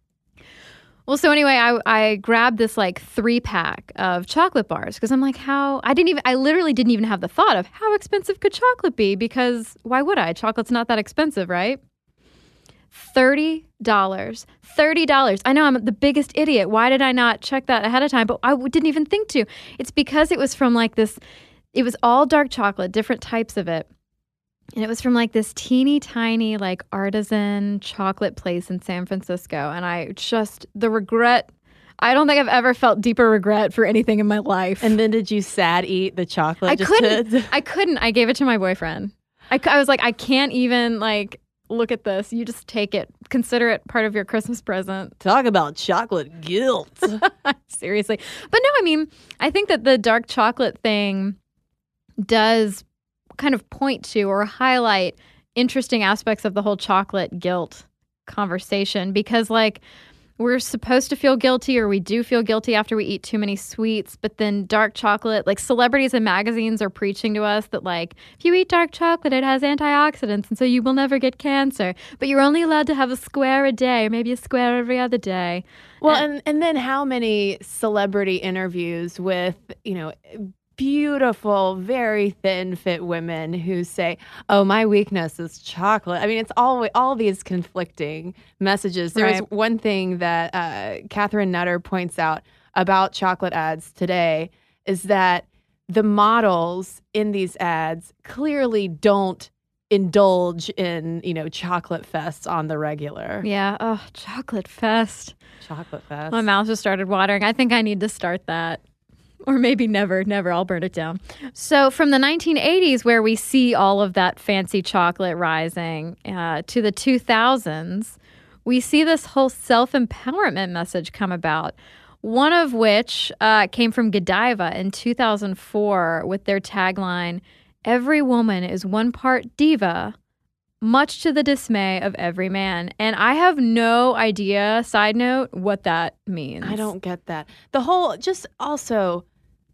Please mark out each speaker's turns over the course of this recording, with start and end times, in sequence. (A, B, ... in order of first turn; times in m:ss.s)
0:01.1-0:11.8 A
0:12.9-0:21.2 A
0:21.7-0:23.9 A
0:24.8-0:31.5 A
0:32.0-0:35.0 A
0:34.8-0:37.5 B
0:36.6-0:45.1 A
0:45.2-0:47.2 B
0:47.2-0:51.4 A
0:52.2-0:52.8 A
0:53.4-0:59.8 A
1:00.4-1:16.2 A
1:16.0-1:43.4 B
1:29.1-1:29.4 A
1:43.4-1:45.3 A
1:45.6-1:46.4 B
1:46.3-1:48.8 A
1:49.5-2:10.1 A
2:10.8-2:16.9 A
2:16.6-2:19.2 B